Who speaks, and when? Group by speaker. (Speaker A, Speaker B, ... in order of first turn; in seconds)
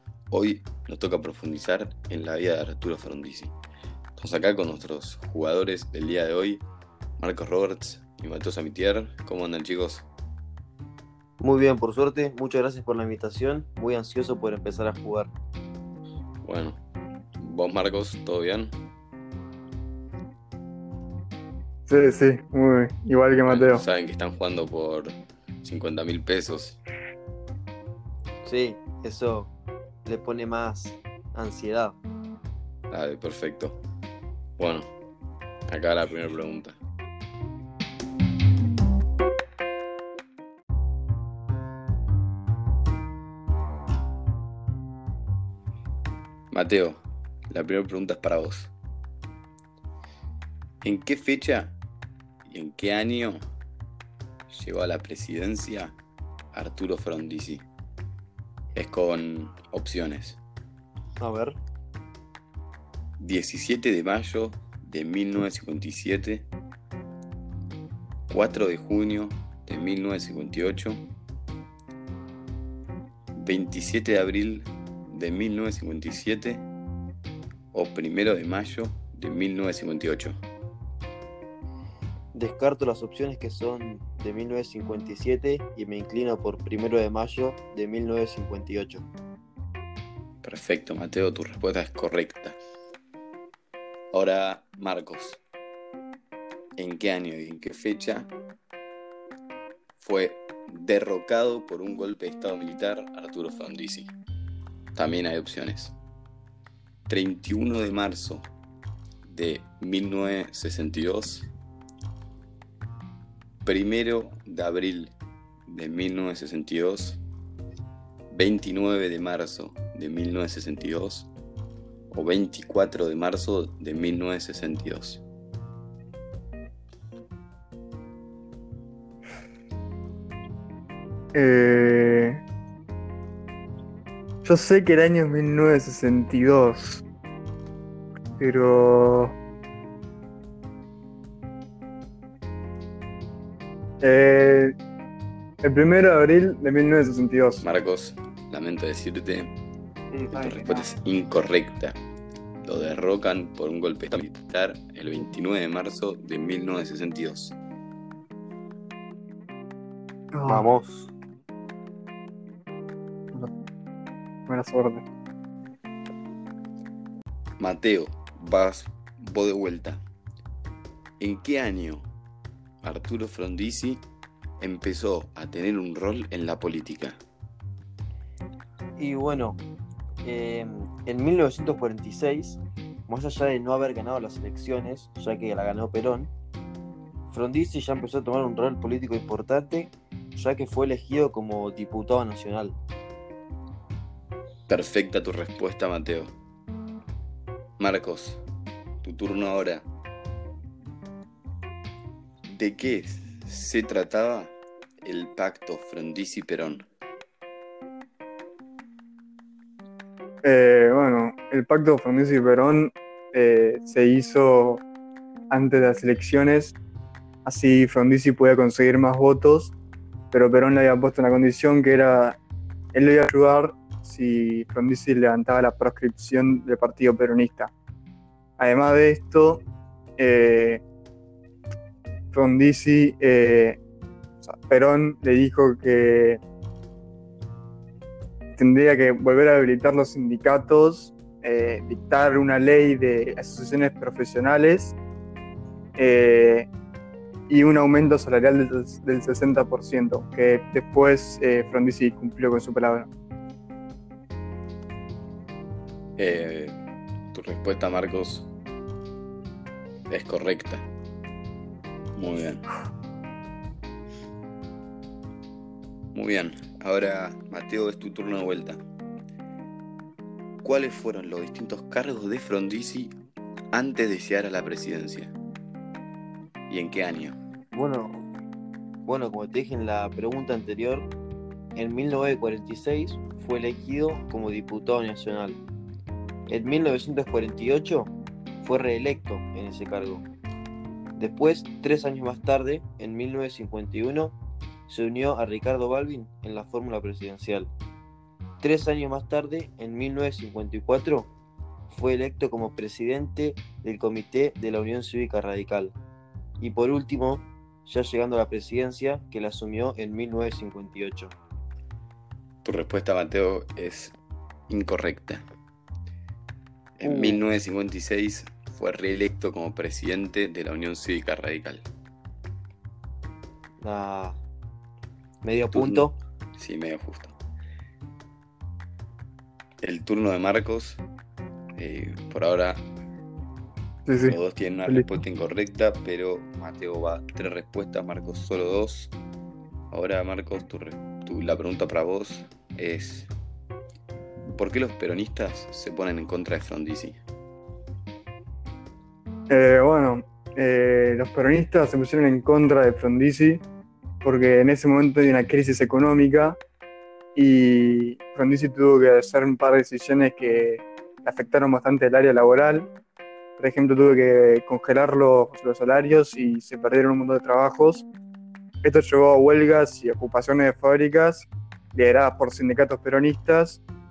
Speaker A: 0.3-3.5, 4.2-6.6, 7.2-10.1, 16.4-16.8, 17.4-18.8, 23.5-26.8, 32.9-33.8, 34.6-34.9, 35.7-36.8, 46.5-48.7, 50.8-51.8, 52.5-53.4, 54.5-55.9, 56.5-57.6, 58.7-60.4, 63.2-66.5, 68.3-71.0, 73.3-76.7, 77.7-80.4, 90.4-92.6, 94.1-95.4, 96.8-98.3, 100.0-104.1, 104.9-106.0, 107.1-108.5, 109.2-111.5, 113.6-115.1, 115.7-117.2, 118.3-121.3, 122.1-125.2, 147.6-149.5, 150.3-152.0, 152.6-157.6, 167.6-170.0, 171.2-172.1, 172.8-174.0, 174.6-177.2, 194.7-196.3, 197.8-198.4, 199.0-199.9, 202.5-206.8, 256.2-256.7, 257.3-258.5, 260.1-260.9, 262.1-262.6, 266.1-268.8, 270.6-273.1, 273.7-275.3, 276.7-277.4, 312.6-314.1, 314.7-315.4, 317.0-321.9, 325.7-327.3, 329.8-331.0, 331.8-332.9, 334.2-339.1, 339.9-343.3, 344.5-347.2
Speaker B: 11.4-15.3, 28.4-29.5, 30.0-32.0, 61.2-61.6, 82.3-89.0, 160.4-161.1, 179.0-179.6, 180.2-186.3, 187.3-192.8, 277.7-278.2, 279.1-281.1, 281.8-285.6, 286.5-290.2, 291.1-294.3, 294.9-297.7, 298.6-301.3, 301.9-305.9, 306.6-311.3, 317.0-317.4, 323.8-324.4, 325.4-326.1
Speaker C: 21.9-23.8, 131.3-132.4, 134.4-137.0, 138.4-139.3, 144.0-144.7, 145.6-147.6, 150.1-150.9, 160.3-160.7, 164.4-165.0, 210.4-214.8, 215.5-216.8, 217.4-219.7, 220.3-222.4, 222.9-227.7, 228.6-229.7, 230.2-230.8, 232.3-233.8, 234.4-236.4, 238.5-244.9, 245.9-246.7, 247.5-253.1, 334.0-335.1, 349.5-353.6, 354.2-356.6, 357.3-362.9, 363.6-368.1, 368.8-373.8